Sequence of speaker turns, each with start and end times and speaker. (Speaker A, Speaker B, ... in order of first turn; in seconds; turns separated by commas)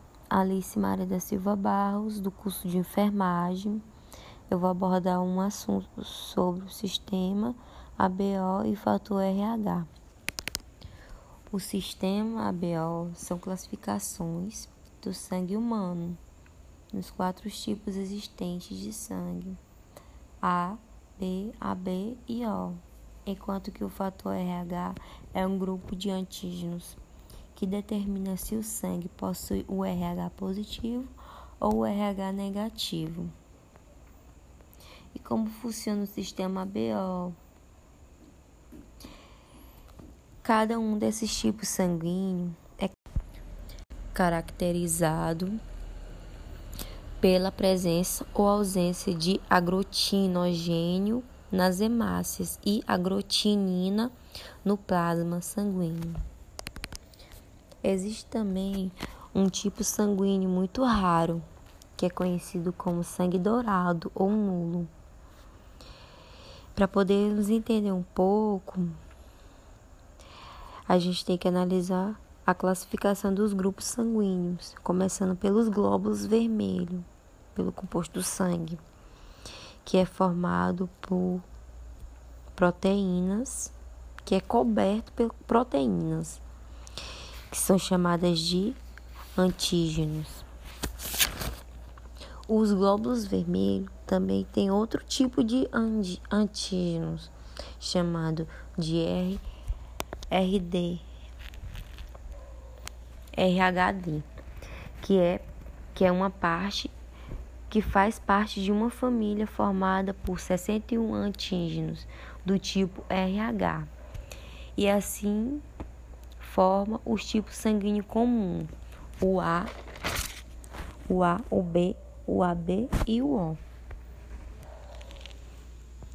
Speaker A: 0.3-3.8, Speaker A: 4.5-9.9, Speaker A: 11.5-16.2, Speaker A: 16.9-19.6, Speaker A: 20.4-27.0, Speaker A: 27.5-33.3, Speaker A: 35.1-37.4, Speaker A: 40.4-43.0, Speaker A: 44.1-45.6, Speaker A: 47.2-54.1, Speaker A: 54.6-56.2, Speaker A: 57.8-61.5, Speaker A: 62.0-64.9, Speaker A: 66.8-69.0, Speaker A: 70.9-78.8, Speaker A: 79.8-81.4, Speaker A: 82.5-83.7, Speaker A: 84.2-86.4, Speaker A: 87.5-88.8, Speaker A: 89.3-90.4, Speaker A: 92.5-99.4, Speaker A: 100.3-101.0, Speaker A: 103.3-104.2, Speaker A: 105.0-106.9, Speaker A: 107.7-113.9, Speaker A: 114.8-115.6, Speaker A: 116.4-119.7, Speaker A: 121.1-123.6